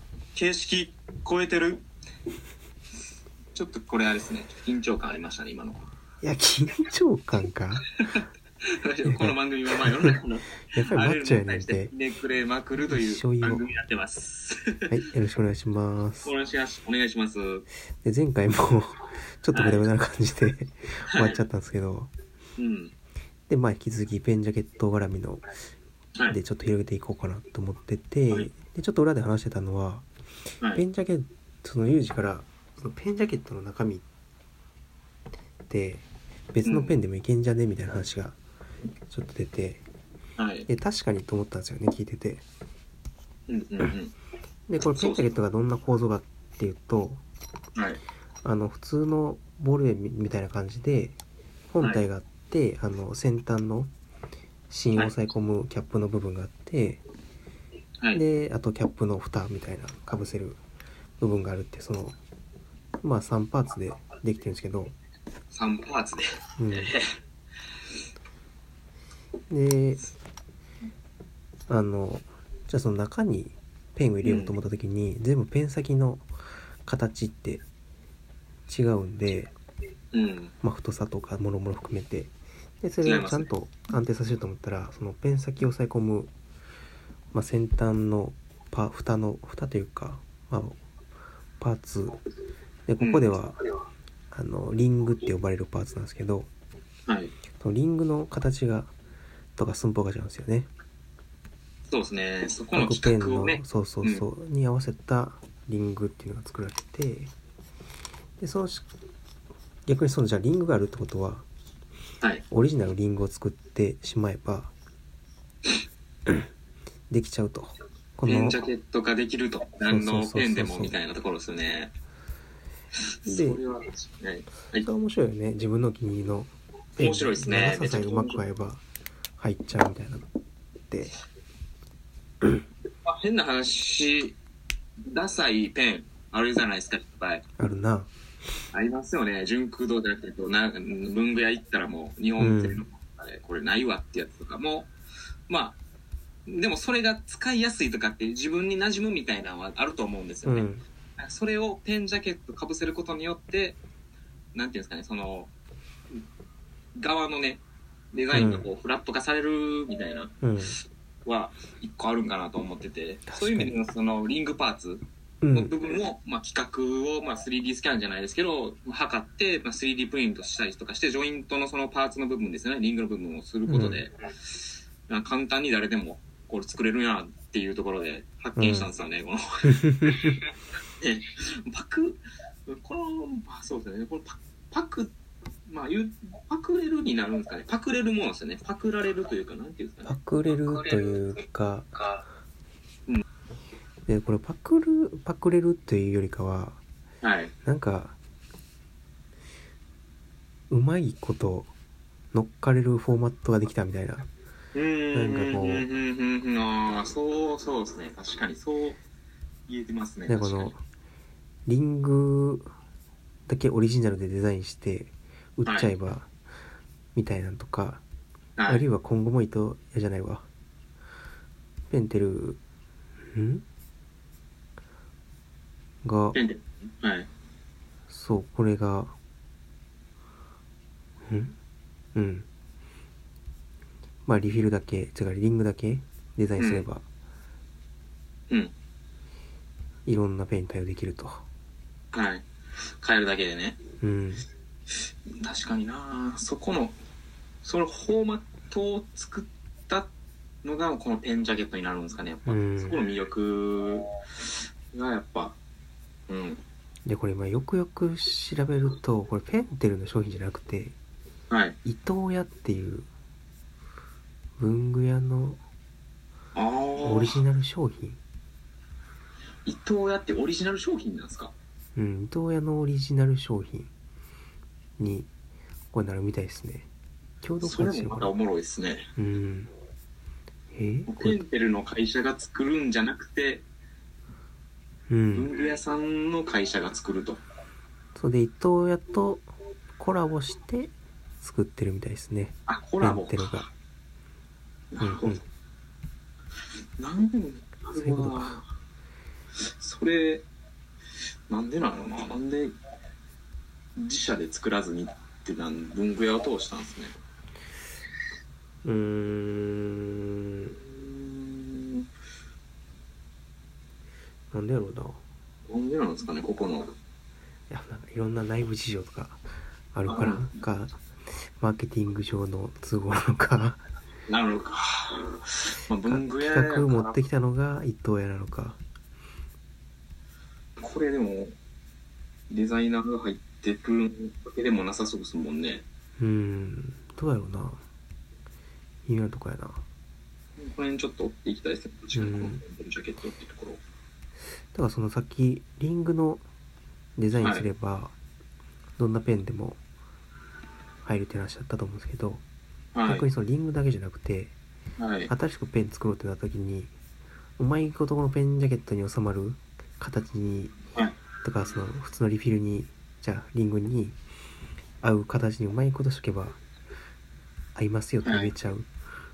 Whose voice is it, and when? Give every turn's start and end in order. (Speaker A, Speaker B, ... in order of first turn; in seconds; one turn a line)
Speaker A: 0.3-1.8
Speaker A: 3.5-5.8
Speaker B: 6.2-7.8
Speaker A: 8.2-14.8
Speaker B: 9.0-10.1
Speaker B: 10.7-11.9
Speaker B: 12.9-13.7
Speaker B: 14.9-16.3
Speaker A: 16.2-17.7
Speaker B: 18.0-22.1
Speaker A: 19.5-19.8
Speaker A: 22.6-22.9
Speaker B: 23.5-25.4
Speaker B: 26.3-30.1
Speaker B: 30.7-34.0
Speaker B: 35.7-38.4
Speaker A: 36.6-37.0
Speaker B: 39.1-39.8
Speaker A: 40.4-40.7
Speaker B: 40.7-42.5
Speaker A: 43.5-44.1
Speaker B: 44.7-47.2
Speaker A: 44.9-45.4
Speaker A: 47.8-48.0
Speaker B: 48.4-51.2
Speaker B: 51.7-53.9
Speaker B: 54.7-57.0
Speaker B: 58.1-60.6
Speaker B: 61.2-62.2
Speaker B: 63.0-64.9
Speaker A: 65.5-67.1
Speaker B: 66.6-67.0
Speaker B: 69.5-70.1
Speaker B: 71.7-76.3
Speaker A: 74.2-74.6
Speaker B: 76.8-77.6
Speaker B: 78.7-79.5
Speaker A: 80.1-80.5
Speaker B: 80.6-86.3
Speaker A: 83.0-83.5
Speaker B: 87.3-90.8
Speaker B: 91.6-92.2
Speaker B: 92.9-93.6
Speaker A: 93.0-93.4
Speaker B: 94.3-96.5
Speaker A: 97.1-97.3
Speaker B: 97.6-98.9
Speaker B: 99.6-100.7
Speaker A: 101.9-104.3
Speaker B: 102.7-107.3
Speaker B: 108.4-108.9
Speaker B: 109.9-111.5
Speaker B: 112.5-114.7
Speaker B: 117.1-118.6
Speaker A: 118.3-121.9
Speaker B: 119.8-121.0
Speaker A: 123.2-124.9
Speaker B: 123.3-123.6
Speaker B: 124.8-128.8
Speaker A: 127.0-128.4
Speaker B: 129.4-130.3
Speaker B: 130.9-131.2
Speaker A: 133.1-134.4
Speaker A: 135.1-137.4
Speaker B: 137.6-138.1
Speaker A: 138.7-144.9
Speaker B: 142.4-142.8
Speaker A: 145.5-145.8
Speaker A: 146.5-153.8
Speaker B: 150.4-150.8
Speaker A: 154.6-155.5
Speaker A: 157.0-160.3
Speaker B: 158.3-158.7
Speaker B: 160.4-160.8
Speaker A: 161.2-180.4
Speaker B: 163.3-163.8
Speaker B: 165.4-165.7
Speaker B: 173.7-174.1
Speaker B: 178.6-178.9
Speaker B: 179.7-180.4
Speaker A: 181.0-185.1
Speaker A: 185.7-191.1
Speaker B: 190.1-191.9
Speaker B: 194.1-196.8
Speaker A: 197.2-197.6
Speaker B: 197.6-198.2
Speaker B: 200.7-201.7
Speaker B: 202.3-204.3
Speaker A: 204.7-209.0
Speaker B: 205.1-205.9
Speaker A: 209.7-210.7
Speaker B: 210.3-210.8
Speaker B: 211.7-212.7
Speaker B: 213.5-216.3
Speaker A: 215.7-215.9
Speaker B: 217.2-218.0
Speaker A: 218.6-218.8
Speaker B: 218.7-220.5
Speaker B: 221.9-222.6
Speaker B: 223.3-223.7
Speaker B: 226.0-226.4
Speaker A: 226.3-227.3
Speaker B: 228.1-229.2
Speaker B: 231.3-231.6
Speaker B: 232.2-232.5
Speaker B: 234.3-237.0
Speaker A: 236.6-236.9
Speaker B: 240.1-241.4
Speaker A: 242.1-242.5
Speaker A: 243.0-243.8
Speaker B: 244.0-244.4
Speaker A: 245.4-247.0
Speaker A: 247.6-250.1
Speaker A: 250.6-255.6
Speaker B: 252.5-253.0
Speaker A: 256.3-256.6
Speaker B: 257.1-260.9
Speaker A: 261.5-261.8
Speaker B: 261.9-263.1
Speaker B: 264.6-265.6
Speaker A: 266.6-267.4
Speaker B: 267.0-268.2
Speaker A: 269.7-271.5
Speaker B: 272.0-273.9
Speaker B: 275.0-275.3
Speaker B: 275.9-276.9
Speaker B: 277.4-278.3
Speaker A: 277.6-279.1
Speaker B: 279.2-279.7
Speaker B: 280.7-281.4
Speaker A: 281.1-283.6
Speaker B: 285.1-285.5
Speaker A: 285.3-287.4
Speaker B: 288.2-293.7
Speaker A: 292.7-293.7
Speaker A: 294.9-295.4
Speaker B: 295.0-295.4
Speaker A: 297.0-298.7
Speaker B: 297.9-298.6
Speaker A: 299.7-300.5
Speaker A: 301.5-302.8
Speaker A: 304.0-307.2
Speaker B: 308.8-310.8
Speaker A: 310.8-312.1
Speaker B: 314.5-315.2
Speaker A: 315.7-316.9
Speaker B: 317.7-321.0
Speaker A: 320.1-320.6
Speaker B: 321.6-323.8
Speaker A: 324.3-327.2
Speaker B: 326.1-328.8
Speaker A: 330.8-331.6
Speaker A: 332.5-335.9
Speaker B: 336.2-337.8
Speaker B: 339.1-339.8
Speaker A: 340.6-343.8
Speaker B: 342.1-342.6
Speaker B: 344.7-346.4
Speaker B: 347.2-348.1
Speaker A: 347.4-347.7
Speaker B: 349.0-349.8
Speaker B: 351.0-352.4
Speaker A: 352.9-353.3
Speaker B: 353.1-354.6
Speaker A: 355.0-355.3
Speaker B: 355.3-356.9
Speaker B: 357.6-360.8
Speaker B: 361.4-364.2
Speaker B: 365.0-366.6
Speaker B: 367.8-368.9
Speaker A: 368.2-368.5